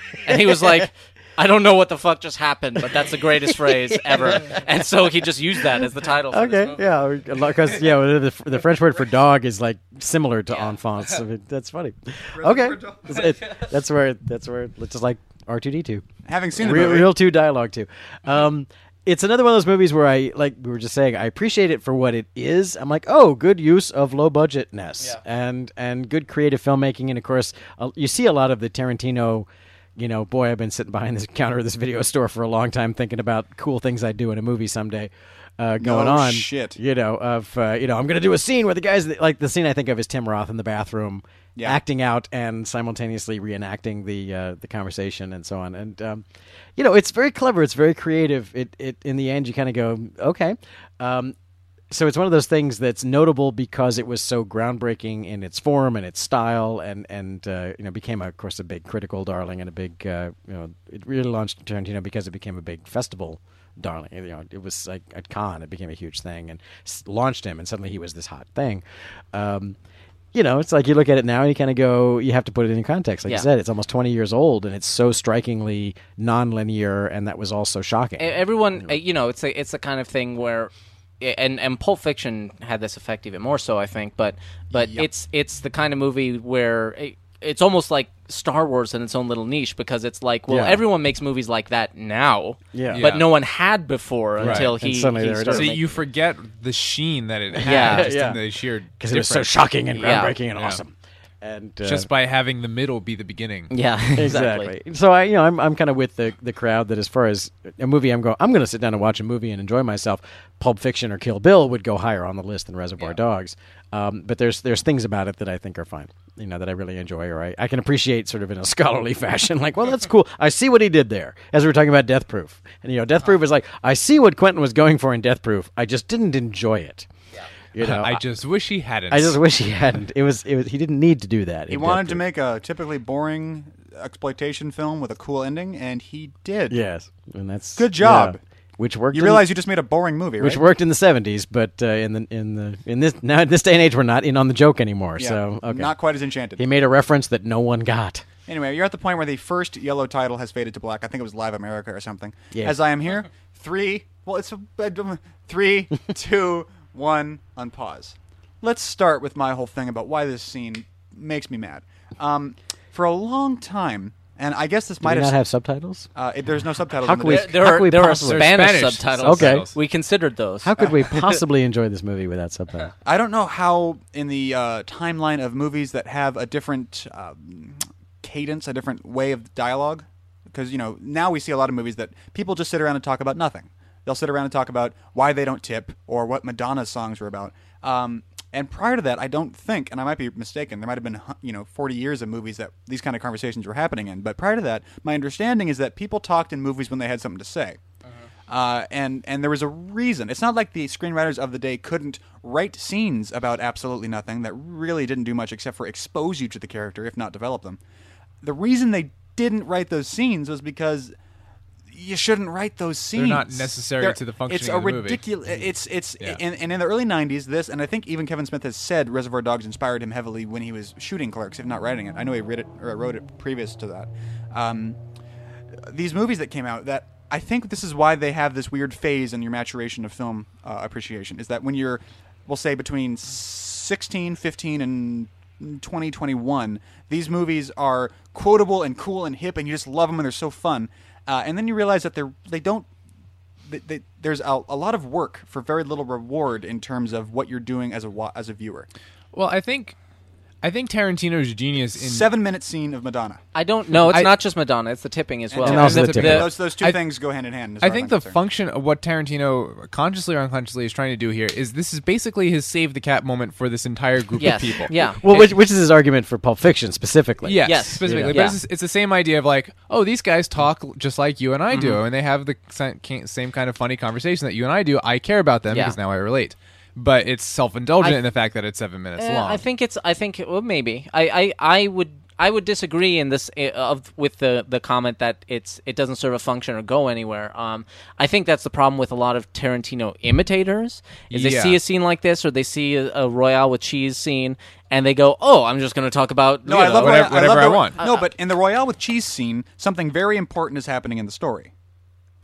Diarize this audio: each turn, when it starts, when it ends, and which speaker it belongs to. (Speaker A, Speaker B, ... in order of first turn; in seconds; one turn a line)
Speaker A: 0.2-6.8
Speaker B: 3.5-4.6
Speaker B: 6.3-46.2
Speaker C: 12.3-13.2
Speaker C: 16.2-17.1
Speaker C: 35.8-36.8
Speaker B: 46.8-51.3
Speaker B: 51.9-69.8
Speaker B: 70.3-78.3
Speaker A: 78.2-95.9
Speaker C: 84.7-85.1
Speaker B: 90.5-90.8
Speaker B: 92.7-93.1
Speaker D: 92.9-93.3
Speaker B: 94.4-95.8
Speaker D: 94.4-94.7
Speaker D: 95.5-99.5
Speaker B: 97.5-98.4
Speaker A: 97.6-98.1
Speaker B: 99.0-102.1
Speaker A: 99.9-100.4
Speaker D: 100.5-100.8
Speaker D: 101.8-103.7
Speaker A: 103.7-104.7
Speaker B: 104.1-127.1
Speaker B: 127.7-128.2
Speaker D: 127.8-129.4
Speaker B: 129.1-132.2
Speaker C: 131.7-136.8
Speaker B: 136.7-139.5
Speaker C: 137.8-138.4
Speaker C: 139.1-140.7
Speaker B: 140.4-145.9
Speaker C: 145.2-146.6
Speaker B: 146.6-148.2
Speaker C: 148.4-165.3
Speaker B: 165.0-166.1
Speaker C: 166.1-167.6
Speaker B: 166.9-168.5
Speaker A: 167.2-171.4
Speaker D: 168.2-169.7
Speaker B: 169.2-169.7
Speaker B: 170.6-172.9
Speaker C: 173.0-197.8
Speaker C: 198.5-207.8
Speaker C: 208.4-211.1
Speaker C: 211.9-225.0
Speaker D: 213.1-215.6
Speaker C: 225.9-242.9
Speaker C: 243.7-248.9
Speaker D: 249.3-249.9
Speaker D: 250.6-252.3
Speaker C: 251.9-253.4
Speaker A: 253.5-256.5
Speaker D: 254.1-254.3
Speaker C: 255.5-258.4
Speaker B: 255.6-256.5
Speaker D: 255.7-257.1
Speaker D: 257.8-264.9
Speaker A: 264.4-265.5
Speaker B: 265.2-268.5
Speaker D: 267.4-279.6
Speaker A: 267.6-268.6
Speaker A: 271.7-272.0
Speaker A: 275.7-275.9
Speaker A: 279.2-297.4
Speaker D: 291.3-291.8
Speaker C: 296.6-301.7
Speaker D: 296.9-298.0
Speaker A: 298.0-298.2